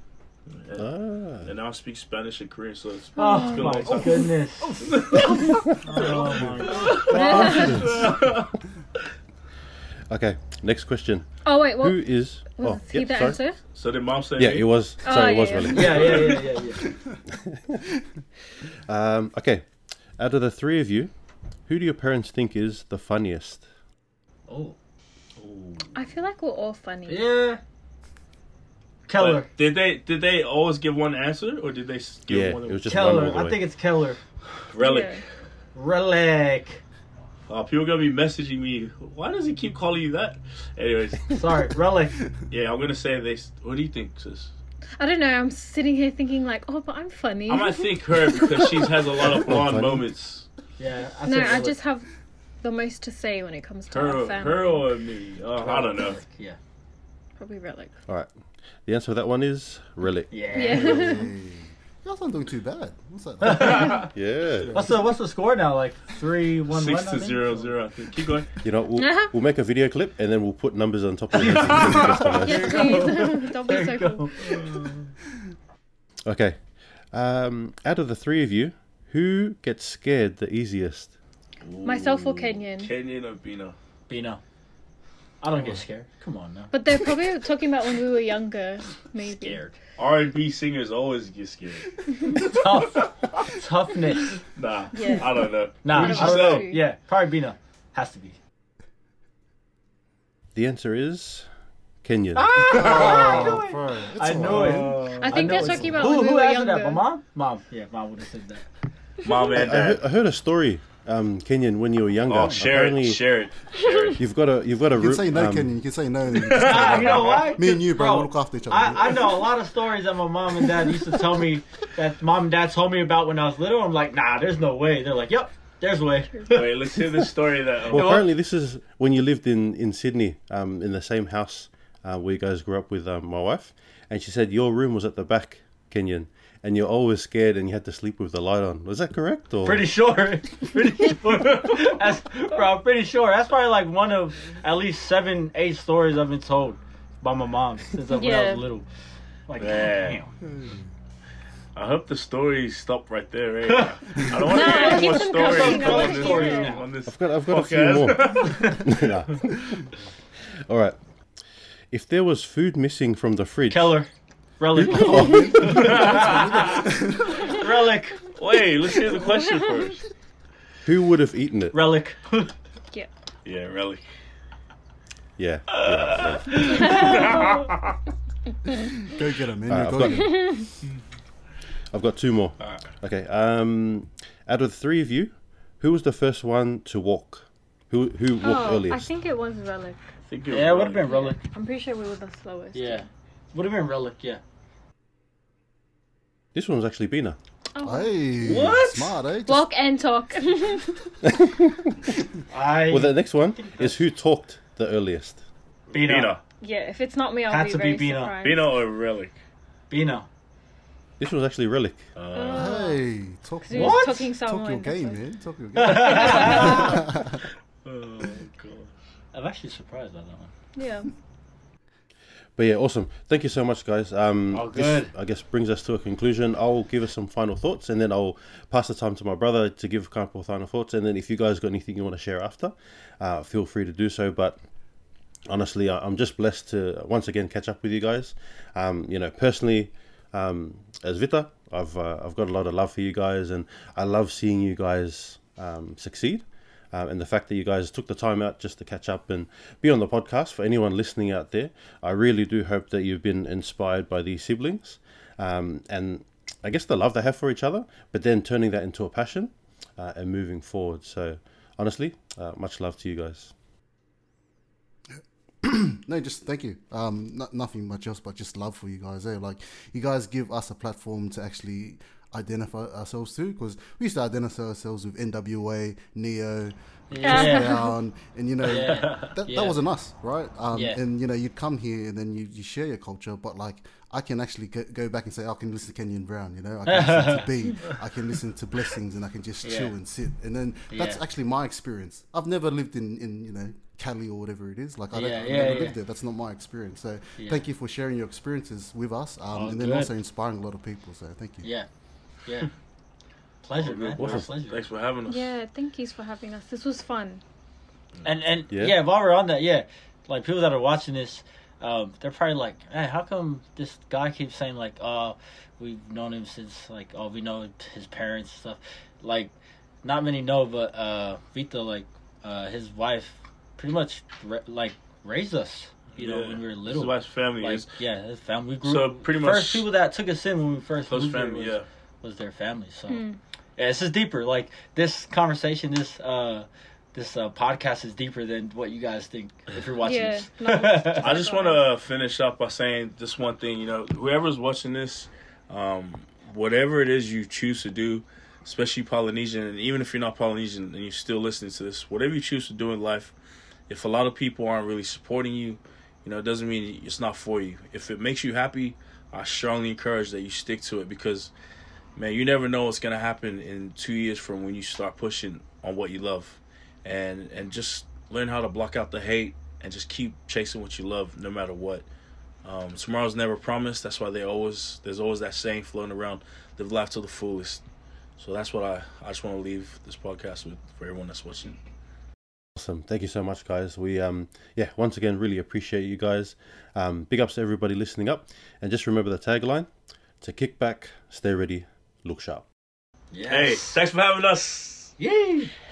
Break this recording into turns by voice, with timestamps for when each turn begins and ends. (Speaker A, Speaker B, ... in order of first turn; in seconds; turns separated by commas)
Speaker A: 0.5-8.5, Speaker B: 0.8-1.5, Speaker C: 3.2-8.1, Speaker D: 3.2-3.9, Speaker E: 4.6-5.1, Speaker E: 6.2-6.7, Speaker D: 7.0-8.0, Speaker E: 7.3-8.1, Speaker B: 10.1-13.4, Speaker D: 11.4-13.6, Speaker A: 13.7-14.8, Speaker B: 14.4-16.4, Speaker D: 15.0-16.2, Speaker C: 15.7-16.9, Speaker E: 16.9-17.2, Speaker B: 17.3-17.8, Speaker B: 18.9-21.1, Speaker B: 21.6-23.6, Speaker C: 24.5-24.8, Speaker A: 25.4-25.9, Speaker D: 25.9-27.2, Speaker C: 27.1-27.6, Speaker C: 29.1-29.5, Speaker A: 29.2-32.8, Speaker B: 32.3-33.6, Speaker C: 32.9-34.2, Speaker A: 34.6-35.2, Speaker D: 34.8-35.2, Speaker C: 35.7-36.8, Speaker A: 37.5-41.5, Speaker C: 41.3-42.2, Speaker A: 42.5-44.5, Speaker D: 45.0-49.4, Speaker A: 47.5-50.5, Speaker B: 49.5-50.1, Speaker C: 50.8-51.8, Speaker D: 51.2-54.9, Speaker A: 53.9-56.2, Speaker C: 55.5-56.6, Speaker D: 57.4-57.9, Speaker B: 58.8-60.3, Speaker C: 60.3-61.2, Speaker D: 60.5-61.3, Speaker E: 60.8-64.0, Speaker C: 63.4-64.1, Speaker A: 63.5-64.9, Speaker B: 64.1-64.8, Speaker C: 64.7-68.1, Speaker A: 66.7-68.5, Speaker B: 68.6-73.0, Speaker D: 69.0-69.3, Speaker C: 71.3-75.1, Speaker D: 72.4-74.5, Speaker A: 74.4-74.9, Speaker B: 76.2-81.1, Speaker A: 81.6-83.7, Speaker D: 81.8-82.9, Speaker C: 84.1-84.4, Speaker C: 85.4-87.1, Speaker D: 86.7-89.6, Speaker C: 89.2-89.8, Speaker A: 90.0-93.5, Speaker C: 92.3-94.4, Speaker A: 94.4-96.8, Speaker D: 94.9-96.8, Speaker C: 95.8-98.4, Speaker B: 100.5-101.5, Speaker B: 102.0-102.5, Speaker C: 102.3-108.7, Speaker E: 102.6-105.0, Speaker A: 102.7-103.6, Speaker A: 104.3-105.7, Speaker D: 105.2-107.0, Speaker E: 105.7-106.0, Speaker A: 109.2-110.0, Speaker D: 109.3-109.5, Speaker B: 109.5-113.2, Speaker A: 112.3-114.2, Speaker D: 113.8-114.1, Speaker B: 114.2-115.7, Speaker E: 115.0-119.5, Speaker A: 116.3-117.5, Speaker C: 116.5-127.3, Speaker A: 126.5-128.2, Speaker C: 127.9-128.3, Speaker B: 127.9-139.9, Speaker C: 139.6-148.9, Speaker D: 148.1-148.6, Speaker C: 149.5-150.3, Speaker A: 149.6-150.2, Speaker E: 150.4-150.9, Speaker A: 151.7-158.8, Speaker C: 153.7-156.9, Speaker D: 154.4-156.8, Speaker B: 157.1-159.6, Speaker C: 158.4-158.9, Speaker B: 160.7-161.0, Speaker B: 161.9-164.0, Speaker C: 163.7-166.9, Speaker B: 164.8-165.8, Speaker E: 164.9-167.4, Speaker A: 165.6-166.9, Speaker C: 167.4-168.4, Speaker A: 168.3-170.1, Speaker D: 169.3-169.9, Speaker B: 170.8-171.8, Speaker C: 171.7-172.5, Speaker A: 173.4-174.0, Speaker B: 175.4-176.9, Speaker A: 175.7-178.0, Speaker C: 176.6-176.9, Speaker D: 176.7-177.6, Speaker E: 179.0-180.7, Speaker B: 179.7-180.4, Speaker D: 180.1-180.7, Speaker B: 181.9-189.1, Speaker A: 182.6-182.9, Speaker D: 188.4-190.0, Speaker A: 190.2-191.1, Speaker C: 190.5-191.4, Speaker D: 191.0-193.1, Speaker C: 192.7-194.4, Speaker B: 196.5-197.4, Speaker D: 197.7-198.7, Speaker E: 197.8-199.6, Speaker A: 198.4-199.2, Speaker D: 199.4-201.0, Speaker C: 202.5-204.0, Speaker B: 202.9-205.4, Speaker C: 205.9-206.4, Speaker A: 205.9-206.4, Speaker D: 206.6-208.7, Speaker C: 207.5-208.4, Speaker A: 208.4-209.3, Speaker C: 209.9-210.3, Speaker B: 211.2-212.1, Speaker A: 212.2-212.8, Speaker D: 212.3-213.0, Speaker E: 212.5-217.4, Speaker D: 213.6-215.2, Speaker C: 213.7-214.3, Speaker C: 215.8-217.0, Speaker D: 215.8-217.0, Speaker A: 217.8-218.9, Speaker C: 219.3-220.5, Speaker D: 220.7-221.1, Speaker B: 222.6-234.7, Speaker C: 224.5-225.1, Speaker B: 235.5-263.5, Speaker E: 265.1-301.7, Speaker C: 277.1-277.8, Speaker D: 277.2-277.9, Speaker C: 278.6-279.8, Speaker A: 278.8-279.3, Speaker C: 280.7-281.0, Speaker C: 286.8-287.5, Speaker C: 289.6-289.9, Speaker C: 290.9-291.2, Speaker C: 295.1-296.0, Speaker C: 297.4-297.6, Speaker C: 299.5-300.1, Speaker C: 301.6-301.9, Speaker C: 302.4-302.7, Speaker C: 303.6-304.8, Speaker A: 303.8-305.5, Speaker B: 304.2-304.4, Speaker D: 305.3-307.4, Speaker C: 308.2-333.2, Speaker B: 308.7-309.0, Speaker A: 326.1-328.0, Speaker A: 328.8-329.9, Speaker A: 331.1-331.9, Speaker D: 333.1-333.4, Speaker C: 333.8-341.5, Speaker D: 340.0-341.9, Speaker A: 341.2-353.3, Speaker A: 353.9-361.5, Speaker A: 362.1-372.1, Speaker A: 372.6-377.8, Speaker A: 378.4-381.8, Speaker B: 382.8-392.6, Speaker C: 393.3-393.9, Speaker A: 393.5-395.1, Speaker C: 395.2-395.7